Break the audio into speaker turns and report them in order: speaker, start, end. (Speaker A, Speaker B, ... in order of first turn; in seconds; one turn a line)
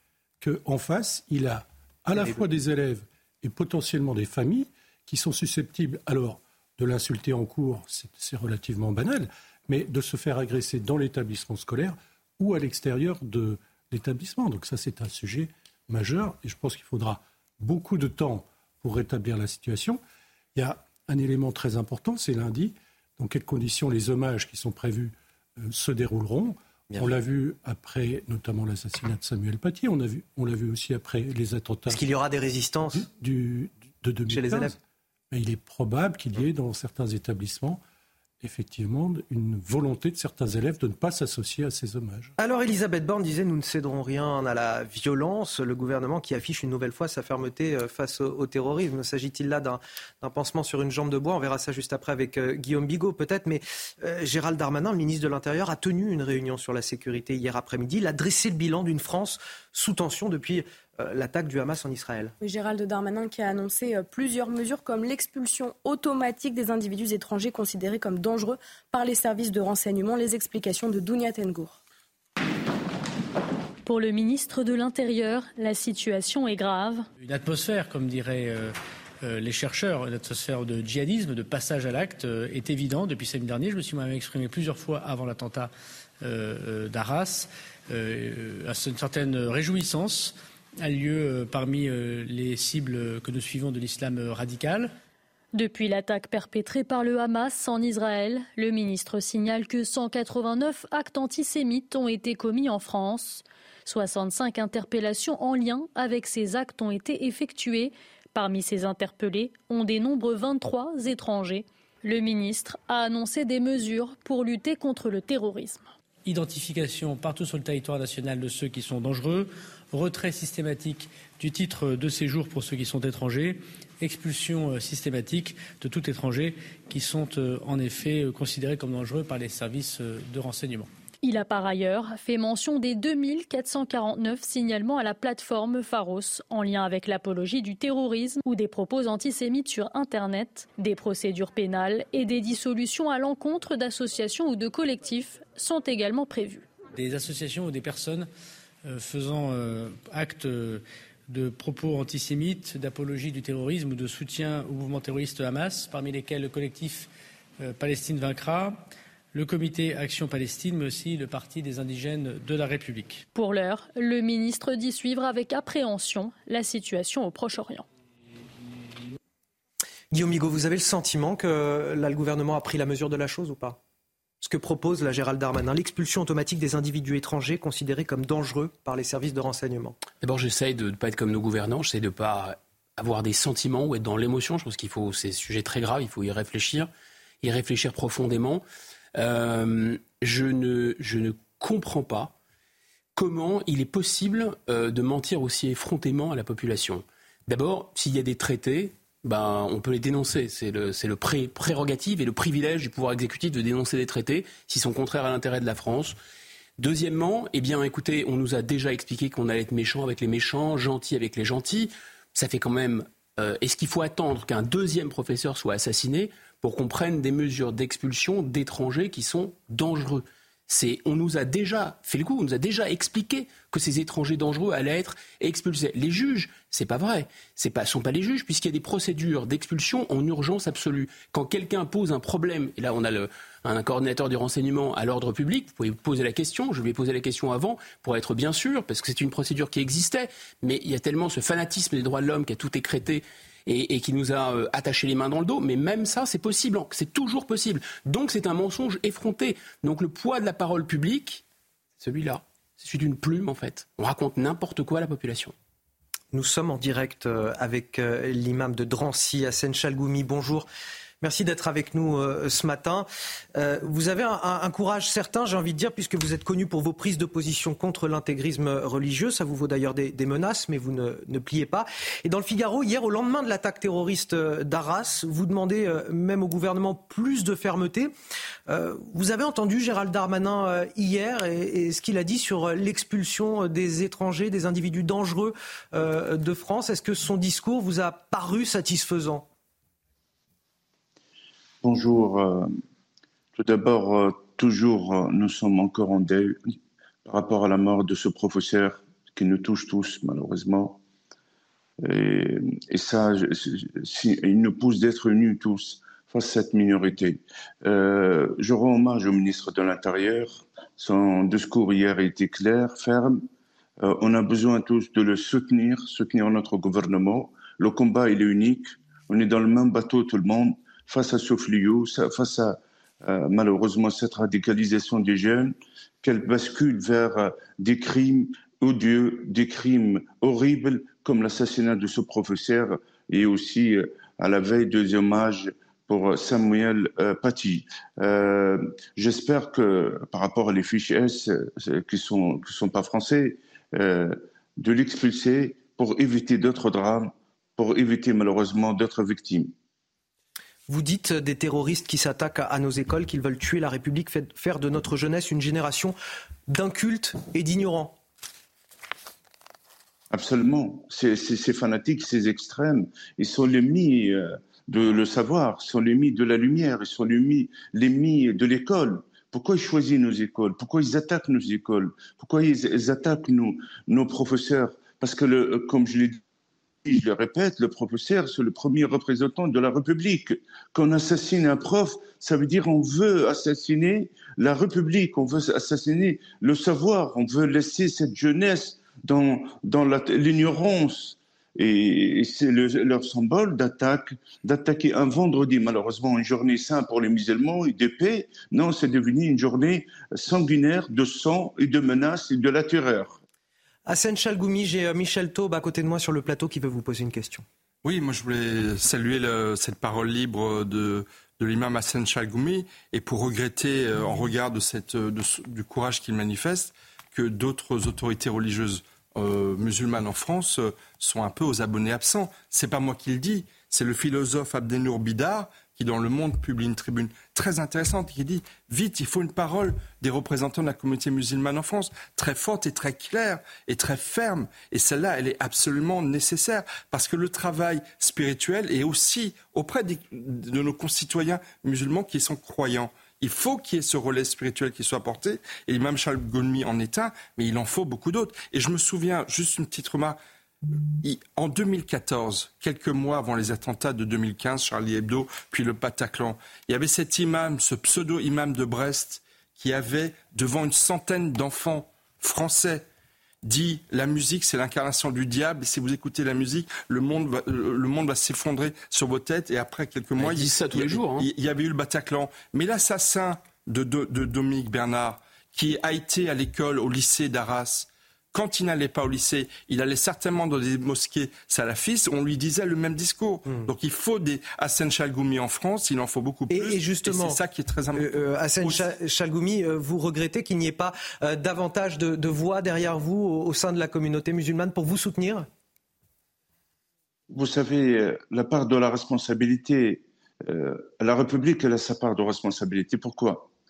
Speaker A: 0.4-20.0
Speaker A: 20.6-32.1
Speaker B: 26.9-27.1
Speaker B: 31.9-33.1
Speaker A: 32.9-34.8
Speaker B: 34.3-34.7
Speaker A: 35.3-37.8
Speaker A: 38.4-42.3
Speaker B: 42.4-62.3
Speaker C: 62.4-71.8
Speaker D: 73.8-77.1
Speaker E: 77.2-85.7
Speaker E: 86.2-94.9
Speaker D: 95.5-115.9
Speaker E: 116.2-130.9
Speaker D: 131.2-146.7
Speaker E: 146.9-148.3
Speaker E: 148.8-158.8
Speaker E: 159.3-163.2
Speaker D: 163.3-167.8
Speaker B: 170.1-173.8
Speaker B: 174.4-180.0
Speaker F: 180.2-186.9
Speaker F: 187.4-188.6
Speaker F: 189.1-192.3
Speaker F: 193.2-206.2
Speaker F: 206.8-251.4
Speaker F: 252.0-255.5
Speaker B: 256.3-260.7
Speaker B: 261.2-278.1
Speaker B: 278.7-289.5
Speaker G: 291.8-292.7
Speaker G: 293.6-296.6
Speaker G: 297.2-301.0
Speaker G: 302.0-313.4
Speaker G: 314.0-349.7
Speaker B: 350.9-356.1
Speaker B: 356.7-358.1
Speaker G: 360.3-376.4
Speaker G: 377.0-403.4
Speaker B: 404.1-407.6
Speaker H: 408.0-450.4
Speaker H: 451.2-463.0
Speaker H: 463.6-489.1
Speaker F: 470.4-471.5
Speaker B: 486.7-487.6
Speaker B: 488.1-495.7
Speaker G: 497.5-503.7